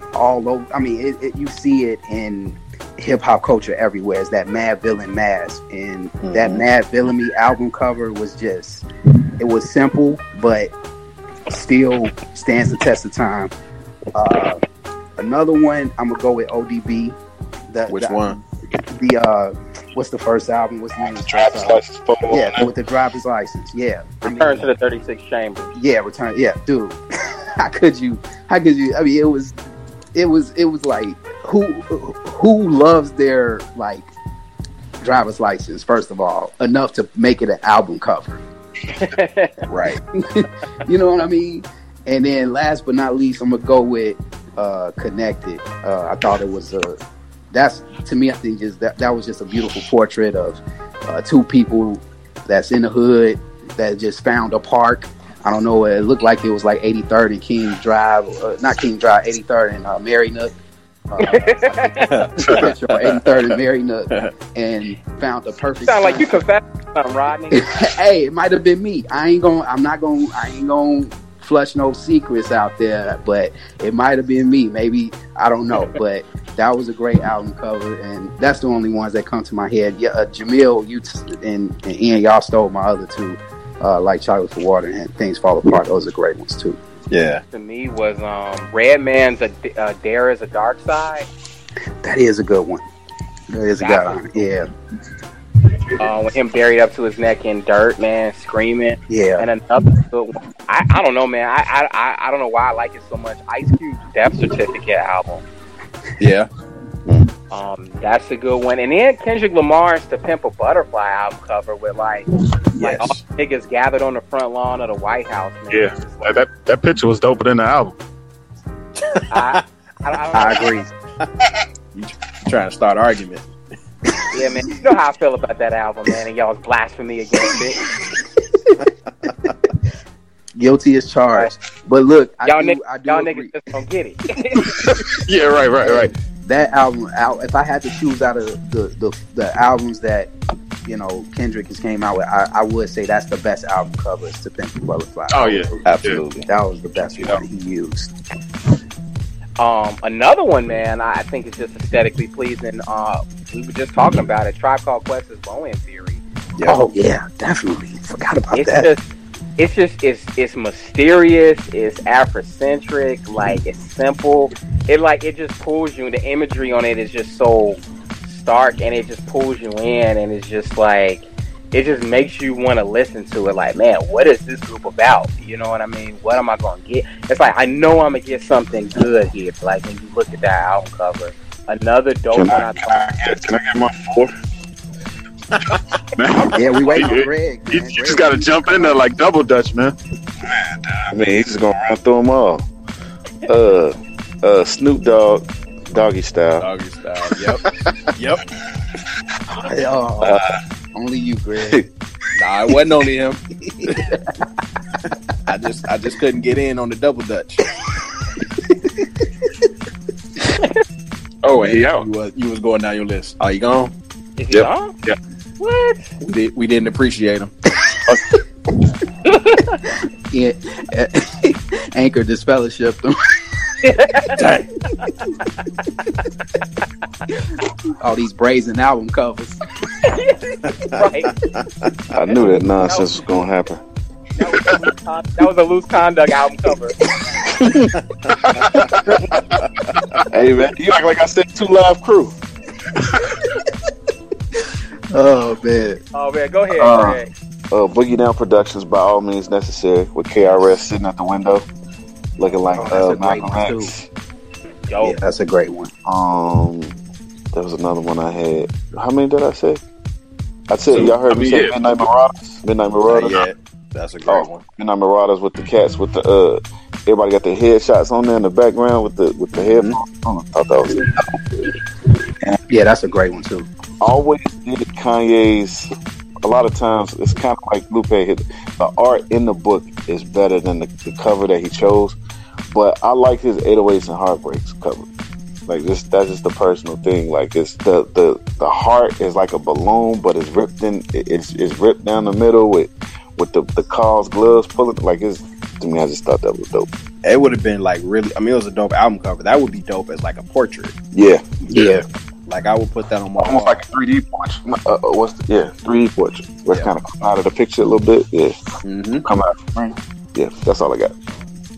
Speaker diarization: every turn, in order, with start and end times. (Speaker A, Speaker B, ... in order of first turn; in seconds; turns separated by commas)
Speaker A: 0.1-8.8, Speaker B: 6.2-6.6, Speaker A: 9.4-10.7, Speaker A: 11.5-13.5, Speaker A: 14.1-14.6, Speaker A: 15.2-17.2, Speaker A: 17.7-24.7, Speaker B: 17.9-18.4, Speaker C: 21.0-22.7, Speaker D: 24.2-25.7, Speaker A: 25.7-27.0, Speaker A: 27.6-29.6, Speaker A: 30.1-34.1, Speaker A: 35.0-38.4, Speaker D: 38.9-39.7, Speaker B: 39.7-40.0, Speaker A: 40.2-47.0, Speaker A: 47.5-60.5, Speaker A: 61.1-66.4, Speaker D: 61.2-62.3, Speaker B: 62.1-63.6, Speaker E: 62.4-62.7, Speaker D: 65.8-67.7, Speaker A: 67.5-86.8, Speaker B: 87.1-87.4, Speaker D: 87.5-91.3, Speaker A: 92.0-92.8, Speaker A: 93.5-94.7, Speaker D: 93.8-94.5, Speaker D: 96.0-105.4, Speaker A: 99.1-99.5, Speaker B: 106.2-106.5, Speaker D: 107.5-112.2, Speaker B: 112.8-113.2, Speaker D: 112.8-116.4, Speaker E: 115.7-117.9, Speaker B: 119.0-119.6, Speaker D: 119.3-120.8, Speaker A: 120.3-120.9, Speaker B: 121.9-123.5, Speaker D: 124.3-127.8, Speaker A: 128.0-128.7, Speaker A: 130.5-133.5, Speaker D: 132.4-134.9, Speaker A: 134.6-134.9, Speaker E: 134.9-136.1, Speaker A: 135.8-140.3, Speaker A: 140.8-145.8, Speaker E: 145.3-146.2, Speaker B: 145.8-146.5, Speaker A: 146.4-148.1, Speaker E: 147.1-147.4, Speaker D: 149.6-156.2, Speaker B: 156.6-156.8, Speaker A: 156.7-158.9, Speaker D: 158.5-159.0, Speaker D: 159.6-183.1, Speaker C: 182.3-184.3, Speaker E: 186.2-189.9, Speaker A: 186.5-189.0, Speaker C: 190.6-192.7, Speaker C: 193.5-196.7, Speaker B: 196.6-198.4, Speaker A: 199.5-200.4, Speaker A: 200.9-201.8, Speaker C: 201.6-201.8, Speaker B: 202.4-204.0, Speaker A: 203.7-204.3, Speaker B: 205.5-207.6, Speaker A: 208.4-209.1, Speaker E: 211.4-212.1, Speaker B: 211.5-213.9, Speaker D: 214.4-214.9, Speaker E: 214.5-215.2, Speaker D: 215.6-216.1, Speaker B: 216.2-217.5, Speaker A: 217.8-218.3, Speaker D: 219.2-219.8, Speaker A: 220.3-223.2, Speaker D: 223.8-224.4, Speaker B: 224.4-224.7, Speaker A: 228.0-229.6, Speaker D: 230.0-231.3, Speaker B: 231.5-231.9, Speaker C: 232.1-233.8, Speaker D: 232.8-233.2, Speaker D: 234.3-236.9, Speaker A: 237.5-237.9, Speaker E: 238.5-239.2, Speaker B: 239.3-240.0, Speaker C: 240.3-242.3, Speaker A: 245.1-246.0, Speaker D: 246.1-247.3, Speaker C: 246.7-251.7, Speaker C: 252.4-254.1, Speaker A: 252.8-253.9, Speaker D: 254.9-255.2, Speaker A: 255.0-255.9, Speaker C: 256.0-257.0, Speaker C: 257.5-259.8, Speaker C: 260.7-263.4, Speaker B: 260.9-261.7, Speaker E: 261.3-261.8, Speaker B: 263.1-264.6, Speaker C: 264.3-271.4, Speaker A: 272.7-273.7, Speaker C: 274.0-275.9, Speaker C: 276.4-282.2, Speaker C: 282.7-285.1, Speaker C: 285.7-296.9, Speaker B: 297.2-300.9, Speaker C: 301.1-301.4, Speaker A: 301.6-302.0, Speaker B: 302.5-303.8, Speaker C: 303.4-308.6, Speaker B: 308.8-309.2, Speaker C: 309.2-311.1